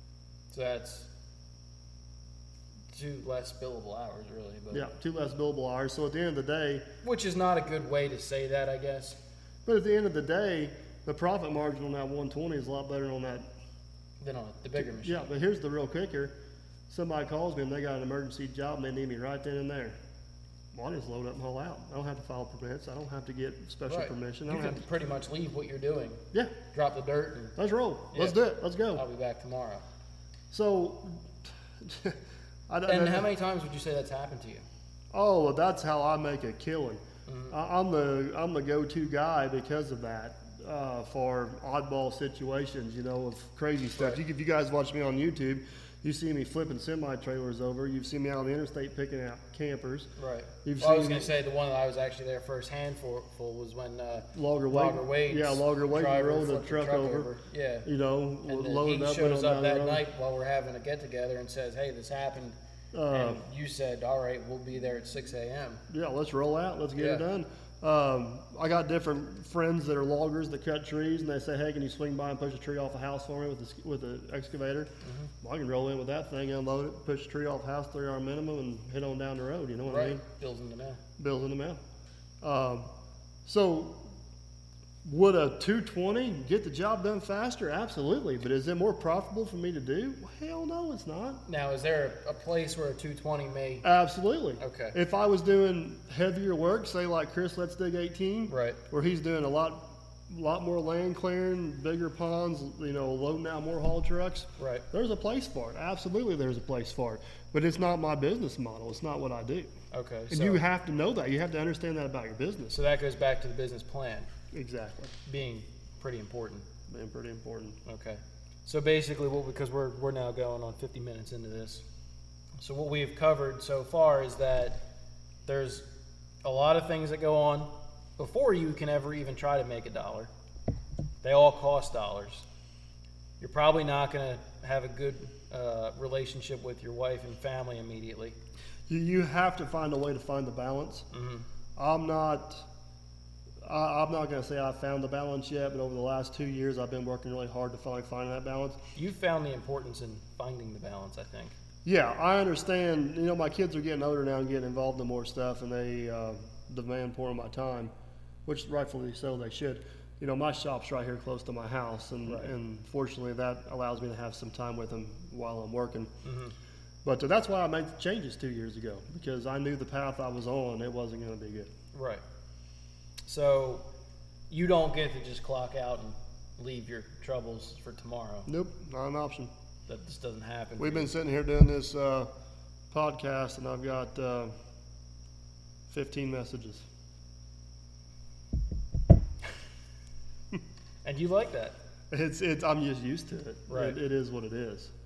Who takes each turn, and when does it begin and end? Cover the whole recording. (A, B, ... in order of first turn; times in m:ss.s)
0:00.5-0:01.1 A
0:02.9-0:04.9 A
0:04.7-0:06.9 B
0:07.0-0:09.2 A
0:09.6-0:13.5 B
0:14.2-0:15.3 A
0:14.8-0:16.3 B
0:16.9-0:20.0 B
0:20.7-0:24.8 B
0:23.8-0:27.5 A
0:27.6-0:29.0 B
0:28.1-0:28.4 A
0:28.9-0:29.8 A
0:30.5-0:33.3 B
0:32.9-0:34.6 A
0:35.1-0:50.1 B
0:37.3-0:37.5 A
0:50.2-0:57.9 A
0:50.6-0:51.3 B
0:54.3-0:57.3 B
0:57.8-1:00.0 B
0:58.5-1:02.6 A
1:02.9-1:03.4 B
1:03.1-1:05.8 A
1:05.9-1:14.9 B
1:07.0-1:07.2 A
1:15.0-1:15.3 A
1:15.4-1:20.2 B
1:19.8-1:21.0 A
1:21.2-1:21.8 B
1:22.4-1:22.9 B
1:23.4-1:24.0 B
1:25.0-1:31.4 B
1:31.4-1:33.9 A
1:33.8-1:49.7 B
1:34.6-1:35.0 A
1:38.5-1:38.8 A
1:44.6-1:44.8 A
1:49.9-1:50.6 A
1:50.3-1:52.8 B
1:52.7-1:54.3 A
1:54.5-1:55.1 B
1:55.2-1:56.7 A
1:56.9-1:57.8 B
1:57.8-2:01.8 A
2:02.6-2:04.8 A
2:05.4-2:05.9 A
2:06.4-2:10.3 A
2:11.2-2:12.4 A
2:13.4-2:18.4 A
2:18.9-2:21.1 B
2:21.1-2:21.4 A
2:21.8-2:22.7 B
2:23.6-2:28.8 B
2:28.9-2:31.5 A
2:31.8-2:37.9 B
2:38.4-2:46.1 B
2:42.2-2:42.5 A
2:46.2-2:46.5 A
2:47.0-2:51.7 B
2:51.9-2:52.2 A
2:53.3-2:53.8 A
2:54.5-2:58.5 A
2:58.4-2:59.5 B
2:59.9-3:01.1 A
3:00.8-3:02.3 B
3:02.9-3:04.5 B
3:05.9-3:06.8 B
3:11.0-3:11.8 A
3:12.1-3:14.9 B
3:13.7-3:14.0 A